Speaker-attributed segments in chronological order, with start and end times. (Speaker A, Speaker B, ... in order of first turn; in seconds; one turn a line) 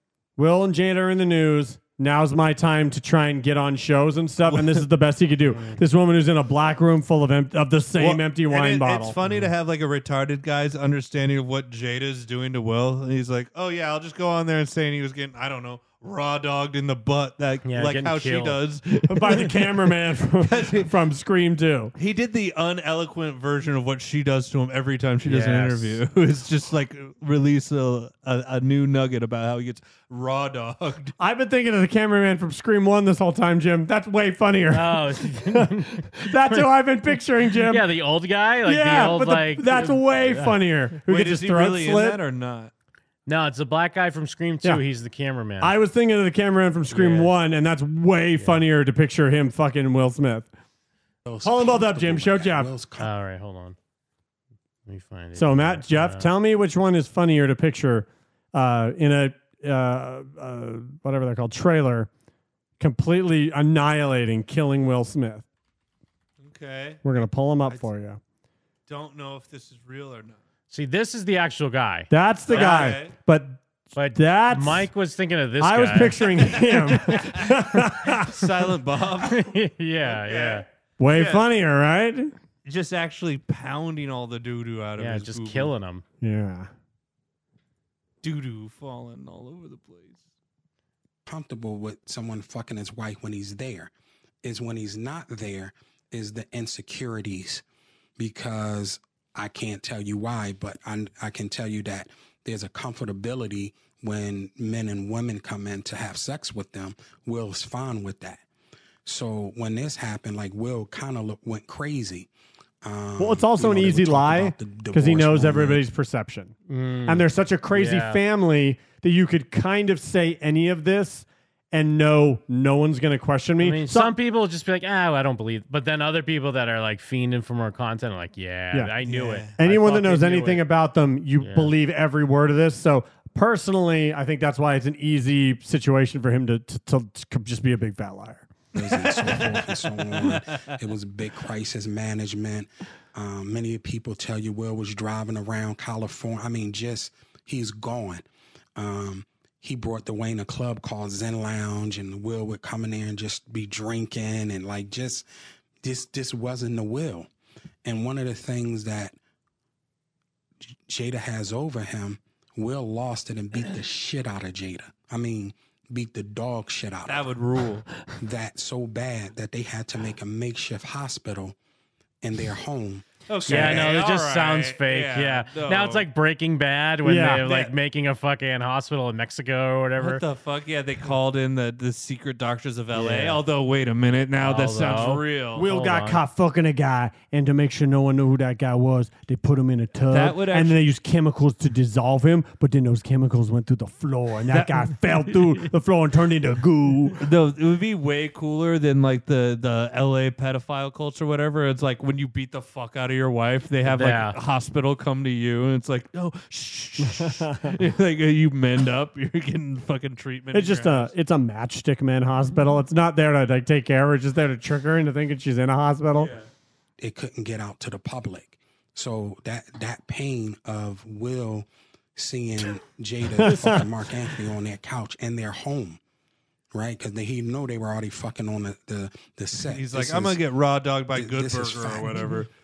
Speaker A: 0.4-9.2
Speaker B: 4.4-4.9
Speaker C: 5.5-5.8
Speaker B: 8.0-20.9
Speaker C: 9.2-9.5
Speaker C: 17.7-18.6
Speaker A: 19.1-21.9
Speaker B: 22.0-31.1
Speaker C: 25.2-26.0
Speaker A: 31.2-37.8
Speaker C: 34.7-40.6
Speaker A: 38.7-42.2
Speaker B: 41.1-42.7
Speaker C: 43.3-45.8
Speaker A: 45.6-50.5
Speaker C: 46.9-47.3
Speaker C: 48.4-48.6
Speaker D: 51.3-53.1
Speaker A: 51.4-52.7
Speaker C: 53.0-53.8
Speaker C: 54.9-56.3
Speaker A: 55.4-62.1
Speaker A: 62.8-65.5
Speaker B: 66.4-67.9
Speaker A: 67.0-68.2
Speaker B: 68.9-70.4
Speaker C: 70.7-72.8
Speaker A: 72.1-73.6
Speaker B: 72.5-73.1
Speaker C: 74.0-77.0
Speaker A: 74.2-74.9
Speaker A: 75.6-78.2
Speaker B: 77.1-81.5
Speaker C: 79.2-80.7
Speaker A: 81.0-82.3
Speaker B: 82.7-85.7
Speaker C: 85.0-86.0
Speaker A: 86.2-86.7
Speaker B: 88.2-90.2
Speaker D: 91.3-93.9
Speaker D: 94.4-97.6
Speaker D: 98.2-108.4
Speaker D: 109.1-112.3
Speaker D: 112.8-115.8
Speaker A: 113.2-116.5
Speaker C: 116.7-118.2
Speaker A: 117.1-124.1
Speaker C: 123.6-130.6
Speaker B: 129.1-129.5
Speaker A: 129.6-139.7
Speaker C: 131.4-131.8
Speaker B: 138.8-140.7
Speaker D: 138.8-148.2
Speaker D: 148.8-155.3
Speaker D: 155.8-157.3
Speaker D: 157.8-159.2
Speaker D: 160.9-167.3
Speaker B: 167.1-167.9
Speaker D: 168.2-171.6
Speaker D: 172.2-173.9
Speaker B: 173.3-176.1
Speaker C: 173.5-180.2
Speaker A: 177.0-177.4
Speaker B: 177.4-177.7
Speaker B: 180.0-185.7
Speaker C: 182.9-183.4
Speaker C: 184.4-186.2
Speaker A: 185.6-197.2
Speaker B: 190.1-190.8
Speaker B: 194.5-195.0
Speaker B: 197.2-211.1
Speaker C: 203.9-204.4
Speaker A: 207.1-207.8
Speaker A: 210.5-216.3
Speaker B: 216.2-216.4
Speaker D: 217.0-226.0
Speaker A: 223.4-223.9
Speaker D: 226.7-230.4
Speaker B: 229.7-232.5
Speaker D: 231.1-232.2